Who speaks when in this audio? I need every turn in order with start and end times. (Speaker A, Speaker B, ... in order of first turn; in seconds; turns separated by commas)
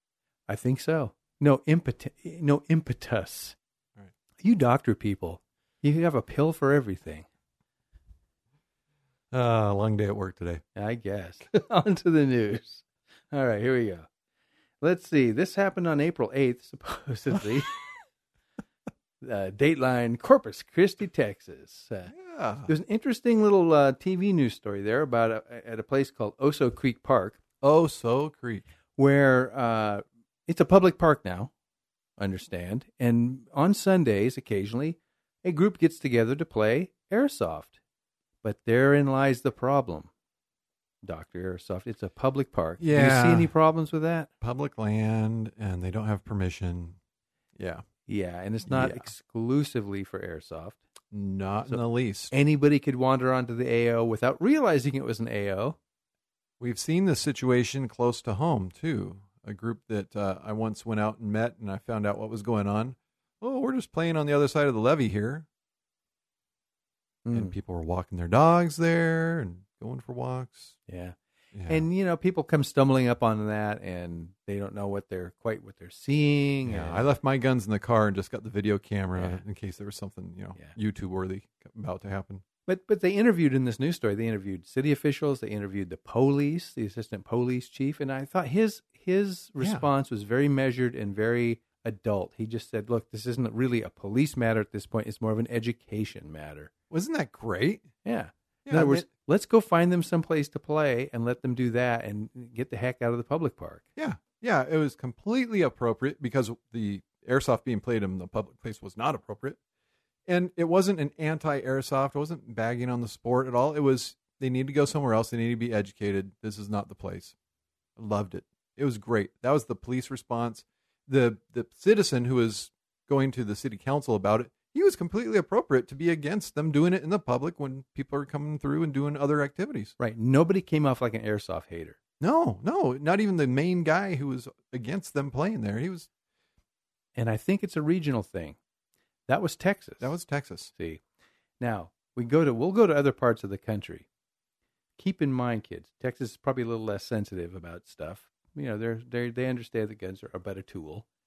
Speaker A: 0.5-3.6, Speaker A: 4.4-7.2, Speaker B: 9.3-10.6, Speaker A: 10.8-14.1, Speaker A: 14.8-17.8, Speaker A: 19.2-22.1, Speaker B: 22.1-22.7, Speaker A: 22.7-27.4, Speaker B: 27.6-28.6, Speaker A: 29.0-31.5, Speaker A: 32.2-37.8, Speaker A: 38.4-40.1, Speaker A: 41.0-44.3, Speaker B: 42.8-43.5, Speaker B: 44.4-47.0, Speaker B: 47.6-47.9, Speaker A: 48.1-50.8, Speaker B: 48.7-49.1, Speaker B: 51.1-52.3, Speaker A: 51.7-55.8, Speaker B: 56.6-65.5, Speaker A: 67.2-67.5, Speaker B: 67.3-70.8, Speaker A: 70.9-71.2, Speaker B: 71.5-71.9, Speaker A: 71.7-77.1, Speaker B: 76.7-82.4, Speaker A: 79.2-79.4, Speaker A: 82.7-96.7, Speaker B: 89.6-89.9, Speaker B: 96.9-97.9, Speaker A: 98.0-103.8, Speaker B: 98.7-99.1, Speaker B: 104.0-109.6, Speaker B: 110.3-117.3, Speaker B: 118.0-129.9, Speaker A: 130.0-132.0, Speaker B: 132.2-136.1, Speaker A: 137.2-138.6, Speaker A: 139.3-140.1, Speaker B: 140.0-140.7, Speaker A: 140.8-141.0, Speaker A: 141.6-144.1, Speaker A: 145.0-151.1